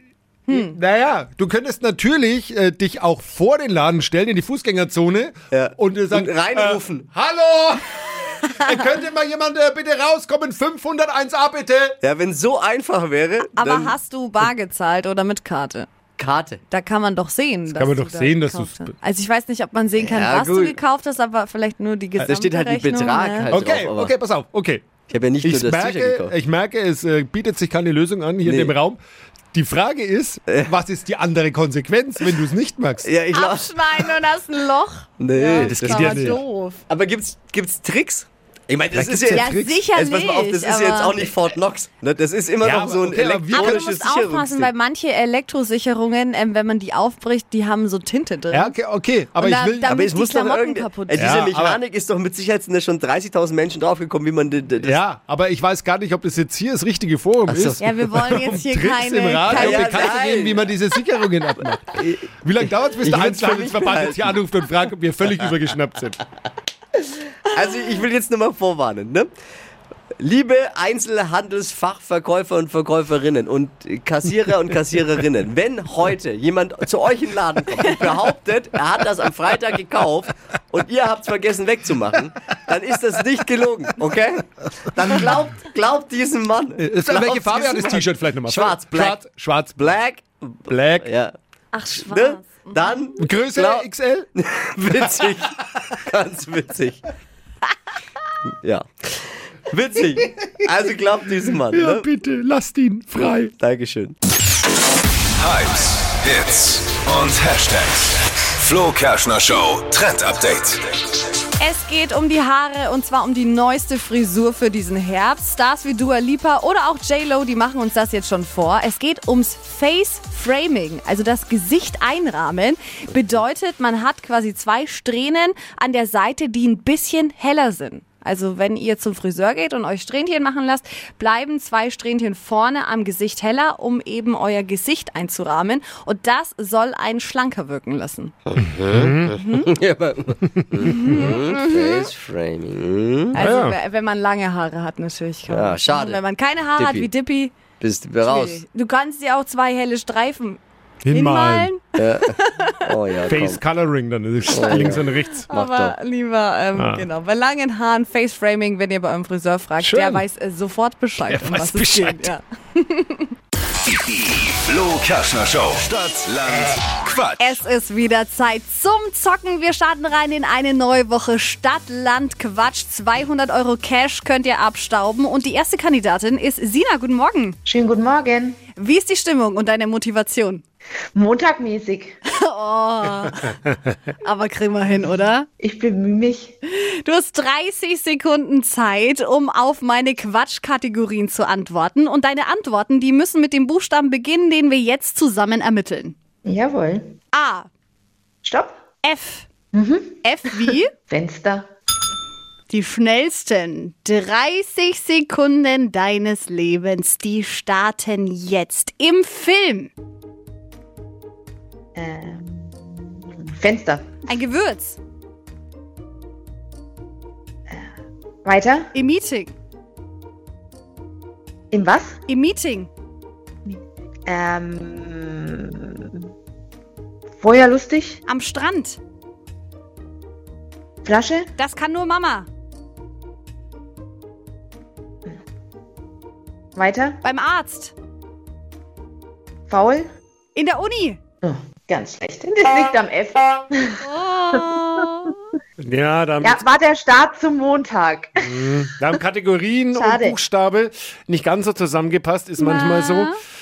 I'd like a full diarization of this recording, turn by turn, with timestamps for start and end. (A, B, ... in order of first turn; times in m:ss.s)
0:00.5-0:00.8 A
0:00.5-0:12.0 B
0:05.5-0:07.1 C
0:12.0-0:14.0 C
0:13.4-0:15.9 A
0:16.2-0:16.6 C
0:16.7-0:23.6 A
0:17.7-0:18.9 B
0:20.0-0:20.8 C
0:22.3-0:24.1 C
0:23.5-0:24.9 B
0:25.1-0:26.3 C
0:25.4-0:29.0 B
0:28.4-0:28.8 C
0:29.5-0:33.0 B
0:30.5-0:30.7 C
0:33.0-0:34.1 C
0:33.3-0:36.8 A
0:35.2-0:44.7 C
0:35.6-0:36.4 B
0:38.9-0:39.8 B
0:39.3-0:41.3 A
0:42.6-0:43.8 B
0:43.5-0:48.8 A
0:48.5-0:49.9 B
0:49.4-0:51.4 A
0:49.8-0:55.0 C
0:51.2-0:51.8 B
0:54.8-1:06.2 B
0:57.5-0:57.8 C
0:57.8-1:00.0 A
0:59.5-1:00.7 C
1:02.0-1:02.3 C
1:03.0-1:04.4 C
1:07.4-1:09.3 C
1:10.2-1:29.2 C
1:26.8-1:29.8 B
1:29.8-1:31.3 C
1:30.7-1:31.0 B
1:31.7-1:32.9 A
1:31.9-1:37.0 C
1:33.2-1:34.3 B
1:38.6-1:42.0 C
1:41.7-1:43.5 B
1:43.5-1:44.2 C
1:45.4-1:50.9 D
1:51.6-2:18.3 A
2:18.5-2:23.4 C
2:18.8-2:19.3 B
2:19.4-2:19.7 A
2:20.8-2:22.1 A
2:23.3-2:27.5 A
2:23.3-2:23.8 B
2:25.5-2:26.2 C
2:26.8-2:27.1 C
2:27.8-2:28.6 C
2:28.2-2:32.9 A
2:31.0-2:31.7 B
2:32.0-2:33.6 C
2:33.3-2:35.5 B
2:34.5-2:36.0 C
2:34.8-2:43.3 A
2:36.8-2:37.0 B
2:39.8-2:40.2 B
2:41.3-2:42.3 B
2:43.9-2:47.6 D
2:47.4-2:57.6 A
2:57.6-2:58.6 E
2:58.8-3:00.6 A
3:01.1-3:02.2 E
3:02.3-3:03.6 A
3:04.2-3:05.5 A
3:05.6-3:06.5 E
3:06.7-3:16.2 A
3:16.4-3:17.1 E
3:17.3-3:17.7 A
3:18.4-3:18.8 E
3:19.0-3:19.5 A
3:19.7-3:20.1 E
3:20.2-3:20.9 A
3:21.1-3:21.7 E
3:22.7-3:29.9 A
3:32.0-3:34.0 E
3:34.3-3:35.0 A
3:38.4-3:38.9 E
3:38.9-3:39.5 A
3:41.7-3:42.2 E
3:42.3-3:42.9 A
3:43.6-3:46.2 E
3:47.4-3:48.2 E
3:48.2-3:49.0 A
3:51.0-3:51.5 E
3:51.6-3:52.5 A
3:56.8-3:57.2 E
3:57.2-3:57.9 A
3:59.7-4:00.1 E
4:00.5-4:01.2 A
4:01.4-4:04.0 E
4:04.0-4:05.4 A
4:05.8-4:06.6 B
4:06.4-4:08.9 E
4:08.4-4:13.3 B
4:09.9-4:10.4 E
4:12.6-4:13.4 A